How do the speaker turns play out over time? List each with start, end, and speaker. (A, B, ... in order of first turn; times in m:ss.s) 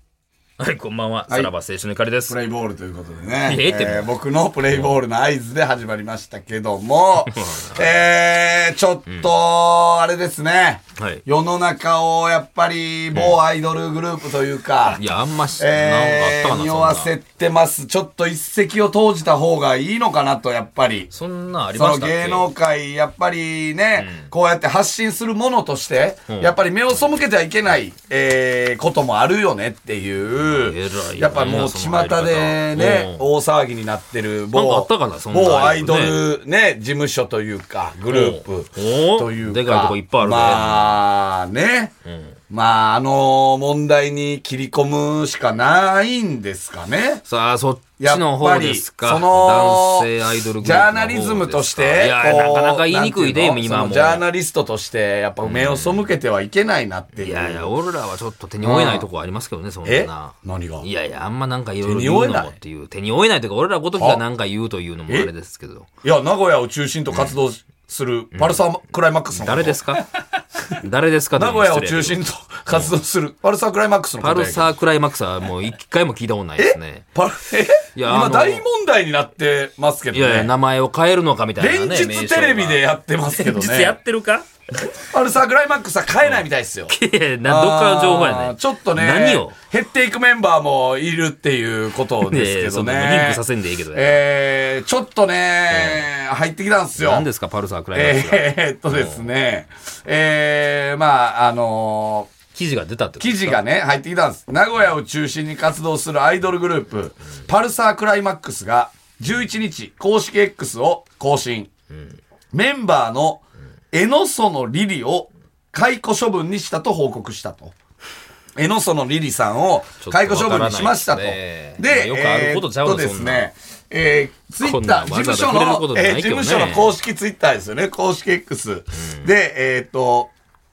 0:00.6-0:02.4 A
0:02.3-0:15.0 B
0:03.4-0:04.1 A
0:04.7-0:05.0 A
0:07.3-0:07.9 A
0:11.0-0:11.2 A
0:14.9-0:17.1 A
0:15.6-0:21.1 B
0:21.1-0:22.5 A
0:21.7-0:41.9 B
0:24.0-0:24.3 A
0:26.3-0:26.6 A
0:30.4-0:33.3 A
0:34.5-0:36.2 A
0:38.1-0:41.0 A
0:42.1-0:42.4 A
0:42.5-0:47.2 B
0:47.3-0:54.2 A
0:48.0-0:57.7 B
0:55.4-0:56.1 A
0:57.2-1:05.9 A
0:58.6-0:59.1 B
0:59.8-1:00.9 B
1:01.8-1:02.6 B
1:04.0-1:04.2 B
1:06.0-1:09.8 B
1:08.3-1:08.6 A
1:09.3-1:10.1 A
1:10.7-1:13.0 A
1:11.4-1:14.7 B
1:14.2-1:17.0 A
1:16.6-1:20.5 B
1:18.0-1:18.7 A
1:20.1-1:24.5 A
1:21.6-1:24.0 B
1:25.0-1:37.3 B
1:26.2-1:29.6 A
1:32.2-1:34.2 A
1:35.7-1:36.1 A
1:37.0-1:39.3 A
1:37.9-1:42.3 B
1:42.5-1:43.6 A
1:43.2-1:51.7 B
1:51.9-1:52.2 A
1:52.5-1:57.8 B
1:58.6-2:10.3 B
2:00.0-2:03.5 A
2:04.6-2:06.9 A
2:08.9-2:09.3 A